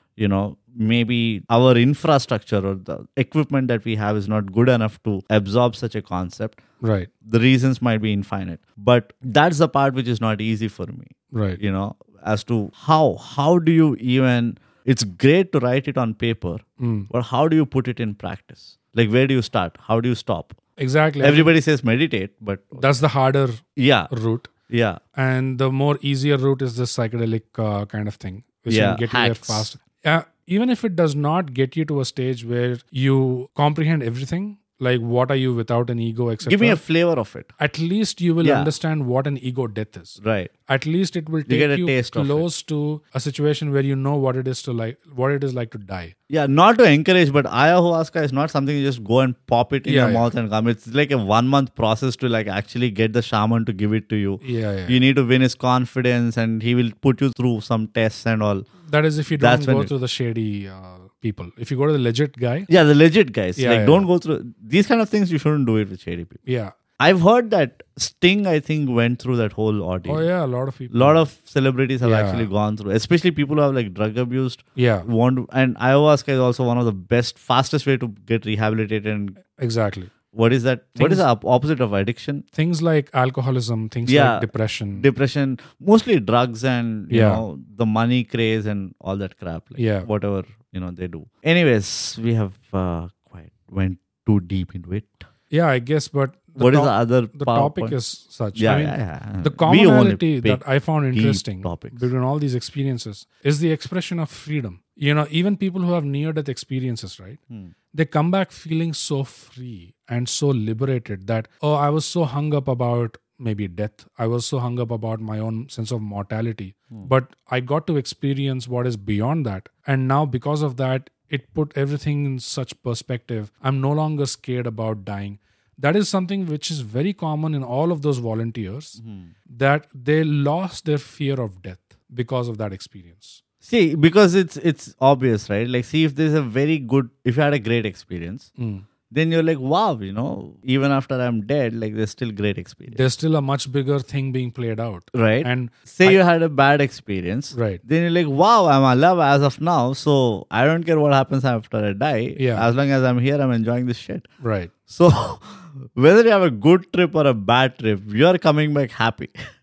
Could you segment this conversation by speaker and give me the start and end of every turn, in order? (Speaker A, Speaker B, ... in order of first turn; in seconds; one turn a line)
Speaker A: 0.2-6.6
Speaker B: 6.8-7.1
Speaker A: 7.2-20.6
Speaker B: 11.3-11.6
Speaker B: 16.8-17.1
Speaker B: 20.8-21.5
Speaker A: 21.2-22.9
Speaker B: 22.8-24.5
Speaker A: 23.8-24.1
Speaker A: 24.7-25.0
Speaker B: 25.1-36.8
Speaker A: 28.7-29.7
Speaker A: 36.4-37.5
Speaker B: 37.6-46.1
Speaker A: 38.4-38.7
Speaker A: 40.2-40.5
Speaker A: 41.5-42.5
Speaker A: 46.3-58.7
Speaker B: 49.8-50.3
Speaker B: 54.4-55.0
Speaker B: 58.8-62.7
Speaker A: 59.4-59.9
Speaker A: 62.7-66.4
Speaker B: 63.6-64.1
Speaker B: 66.5-66.7
Speaker A: 67.0-70.3
Speaker B: 70.0-71.2
Speaker A: 70.9-79.4
Speaker B: 72.0-72.5
Speaker B: 74.8-75.1
Speaker B: 79.6-80.1
Speaker A: 80.3-82.4
Speaker B: 81.0-81.2
Speaker B: 82.5-85.1
Speaker A: 84.1-95.2
Speaker B: 87.1-87.4
Speaker B: 89.8-90.1
Speaker B: 95.5-107.4
Speaker A: 96.6-98.0
Speaker A: 98.5-100.6
Speaker A: 101.1-102.1
Speaker B: 107.9-133.4
Speaker A: 129.0-129.3
Speaker A: 133.6-138.5
Speaker B: 138.6-138.8
Speaker A: 139.1-143.0
Speaker B: 142.9-146.2
Speaker A: 145.1-154.3
Speaker B: 147.5-147.8
Speaker B: 152.4-152.7
Speaker B: 154.4-154.7
Speaker A: 154.9-159.3